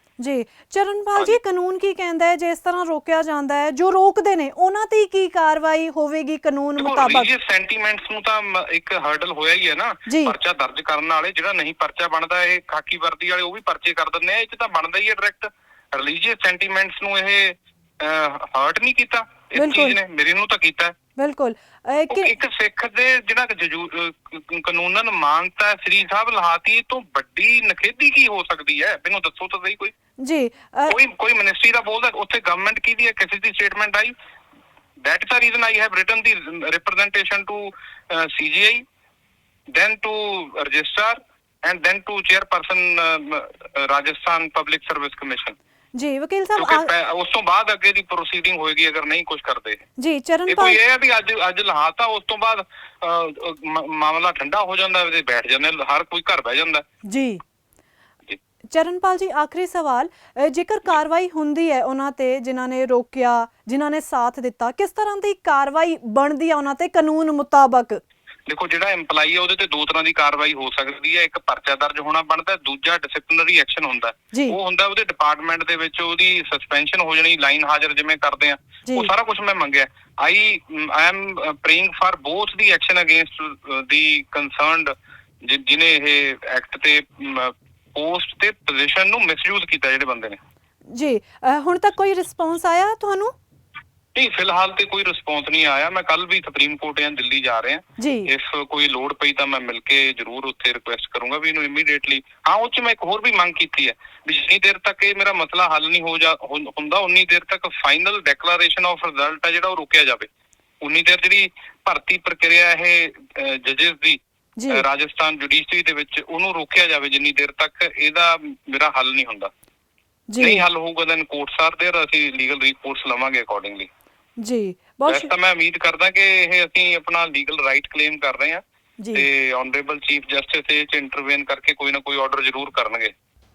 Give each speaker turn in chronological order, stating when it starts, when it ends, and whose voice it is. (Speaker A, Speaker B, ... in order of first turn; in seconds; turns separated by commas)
Speaker A: 0.2-7.3, Speaker B: 6.8-20.9, Speaker A: 10.1-10.3, Speaker A: 19.6-20.0, Speaker A: 21.2-22.3, Speaker B: 22.1-29.9, Speaker A: 30.2-31.0, Speaker B: 30.9-34.1, Speaker B: 35.0-38.8, Speaker B: 39.7-45.6, Speaker A: 46.0-46.9, Speaker B: 46.6-49.8, Speaker A: 50.0-50.8, Speaker B: 50.5-56.8, Speaker A: 57.1-57.4, Speaker A: 58.7-68.0, Speaker B: 68.5-90.4, Speaker A: 90.9-93.3, Speaker B: 94.2-110.3, Speaker A: 98.0-98.3, Speaker B: 110.8-119.5, Speaker A: 114.6-114.8, Speaker A: 120.3-120.6, Speaker B: 120.4-123.9, Speaker A: 124.4-125.3, Speaker B: 125.1-128.6, Speaker A: 129.0-129.3, Speaker B: 129.1-133.1